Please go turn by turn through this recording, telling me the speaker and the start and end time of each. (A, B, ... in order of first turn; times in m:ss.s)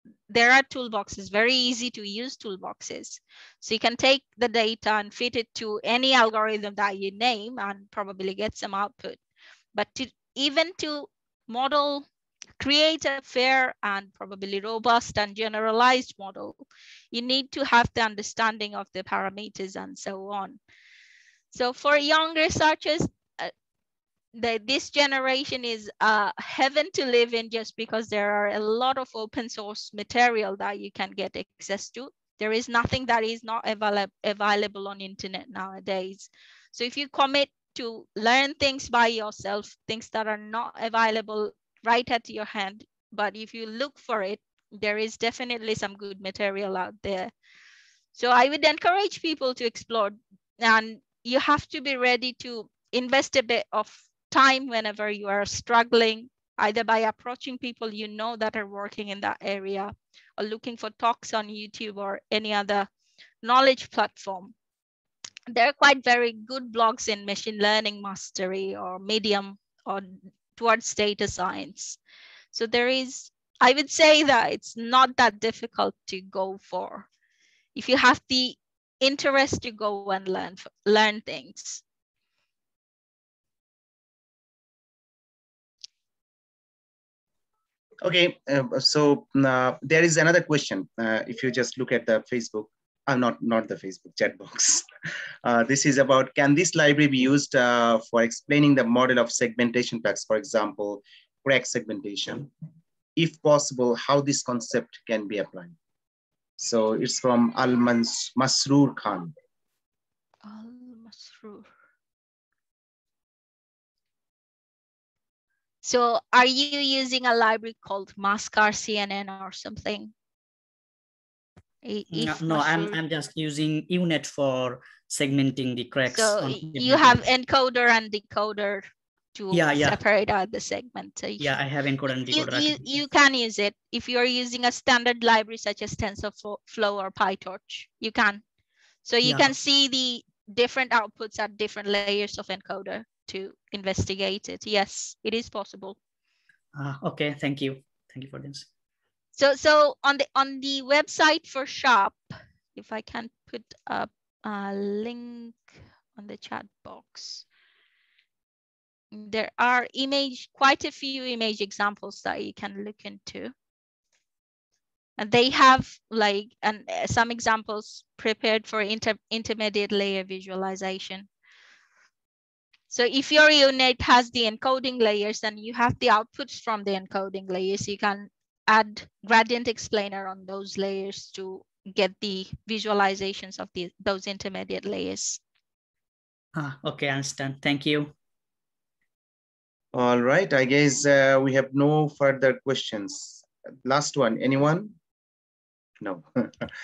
0:00.3-0:09.2 A
0:09.7-0:12.0 A
0:12.6-0:16.6 A
0:17.1-0:20.6 A
0:21.5-0:23.5 A
0:24.3-0:47.3 A
0:48.1-1:02.9 A
1:03.4-1:04.5 A
1:05.5-1:12.0 A
1:12.5-1:17.1 A
1:17.7-1:21.8 A
1:28.0-1:34.8 B
1:35.4-1:42.5 B
1:43.2-1:45.7 B
1:46.6-1:49.3 B
1:50.4-1:51.7 A
1:55.8-2:00.1 A
2:01.8-2:03.0 A
2:02.1-2:07.2 C
2:06.1-2:11.6 A
2:09.5-2:10.0 C
2:11.4-2:13.0 C
2:12.3-2:18.4 A
2:19.0-2:26.0 A
2:19.2-2:19.5 C
2:26.8-2:28.6 C
2:29.4-2:32.2 A
2:32.8-2:35.6 A
2:36.2-2:37.4 A
2:39.1-2:43.5 A
2:45.2-2:51.3 A
2:52.9-3:05.4 A
3:06.6-3:08.1 C
3:09.9-3:14.9 B
3:16.0-3:16.7 B